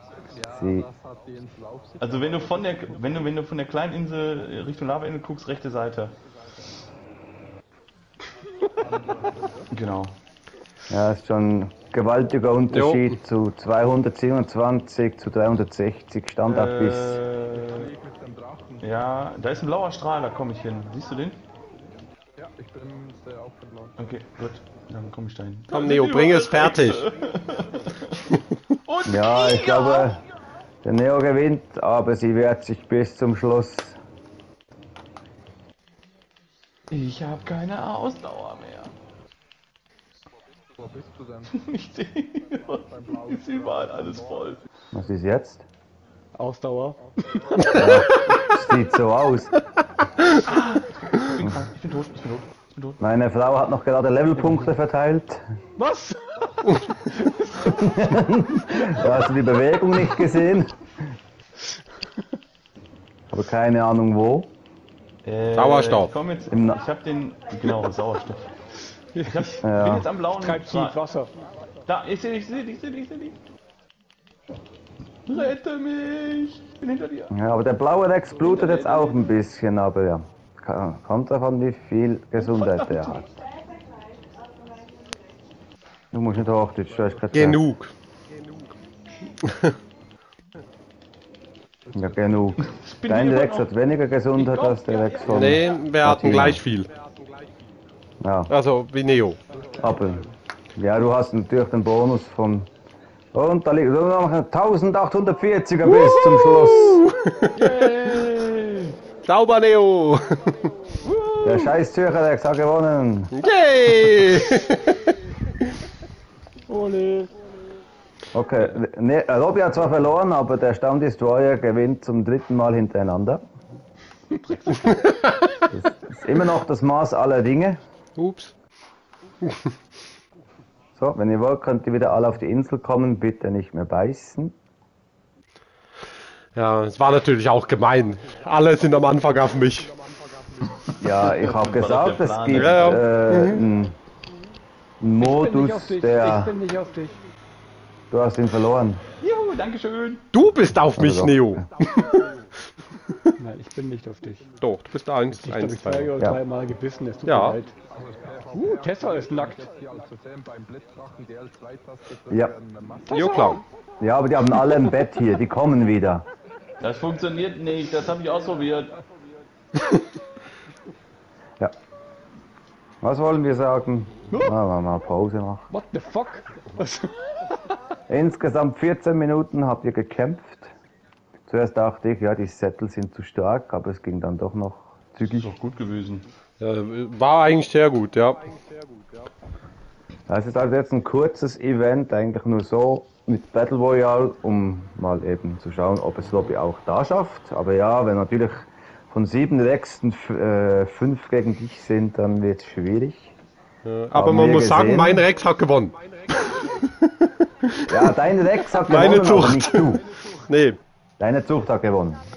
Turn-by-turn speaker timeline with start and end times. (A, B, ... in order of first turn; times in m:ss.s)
0:00.2-0:03.2 A
0:00.5-0:00.9 B
0:02.0-0:06.2 C
0:08.8-0:09.7 A
0:09.7-0:10.2 C
0:10.9-0:17.2 B
0:12.7-0:13.1 D
0:16.4-0:17.9 C
0:17.5-0:18.9 A
0:18.8-0:21.4 C
0:22.4-0:24.0 A
0:24.0-0:28.2 C
0:25.7-0:27.1 D
0:28.8-0:30.2 C
0:29.0-0:30.2 B
0:30.8-0:34.0 B
0:36.9-0:38.9 C
0:40.8-0:41.6 A
0:41.5-0:44.6 C
0:42.5-0:44.6 A
0:44.9-0:45.6 B
0:46.3-0:48.0 E
0:47.7-0:49.5 B
0:50.3-0:53.0 C
0:53.0-0:55.4 B
0:55.8-0:56.1 E
0:57.2-0:57.7 E
0:57.6-1:00.8 B
1:03.3-1:04.5 B
1:05.2-1:08.5 C
1:05.5-1:06.1 D
1:06.5-1:06.8 B
1:09.1-1:09.5 E
1:09.2-1:11.0 C
1:09.6-1:10.1 B
1:10.3-1:11.3 E
1:11.9-1:13.4 C
1:15.2-1:16.8 C
1:16.8-1:17.3 E
1:17.3-1:23.4 B
1:18.4-1:19.3 C
1:22.5-1:23.1 C
1:26.1-1:27.7 B
1:27.3-1:27.9 D
1:29.4-1:29.7 D
1:31.9-1:36.6 B
1:32.6-1:33.7 C
1:34.3-1:35.8 C
1:35.3-1:36.9 D
1:38.2-1:38.5 B
1:38.5-1:39.4 D
1:39.5-1:40.3 A
1:39.8-1:40.2 B
1:40.8-1:42.7 B
1:43.3-1:47.0 B
1:45.9-1:47.6 D
1:47.6-1:48.9 C
1:47.7-1:48.5 E
1:49.2-1:50.7 D
1:51.0-1:51.7 C
1:51.4-1:53.3 B
1:53.3-1:55.1 D
1:56.7-1:57.3 E
1:58.3-2:03.4 B
2:05.7-2:07.8 B
2:08.2-2:08.5 D
2:11.0-2:14.6 B
2:16.5-2:20.0 D
2:21.0-2:23.0 C
2:21.0-2:23.9 B
2:22.6-2:23.6 D
2:25.0-2:26.5 B
2:25.2-2:27.2 E
2:28.1-2:29.0 B
2:29.2-2:30.3 C
2:30.3-2:32.2 D
2:31.0-2:31.6 B
2:33.4-2:34.5 E
2:34.6-2:36.2 D
2:35.4-2:37.7 E
2:37.2-2:37.6 D
2:37.9-2:43.6 A
2:38.5-2:39.7 E
2:42.3-2:42.5 B
2:43.1-2:43.6 D
2:44.0-2:46.2 B
2:46.8-2:49.0 C
2:53.0-2:55.7 B
2:55.7-2:57.2 E
2:58.1-3:00.7 B
3:01.5-3:05.5 B
3:05.3-3:06.2 C
3:06.6-3:08.6 D
3:10.3-3:23.3 B
3:23.8-3:26.0 D
3:24.1-3:25.2 B
3:27.8-3:30.0 B
3:28.7-3:30.8 D
3:31.2-3:32.2 B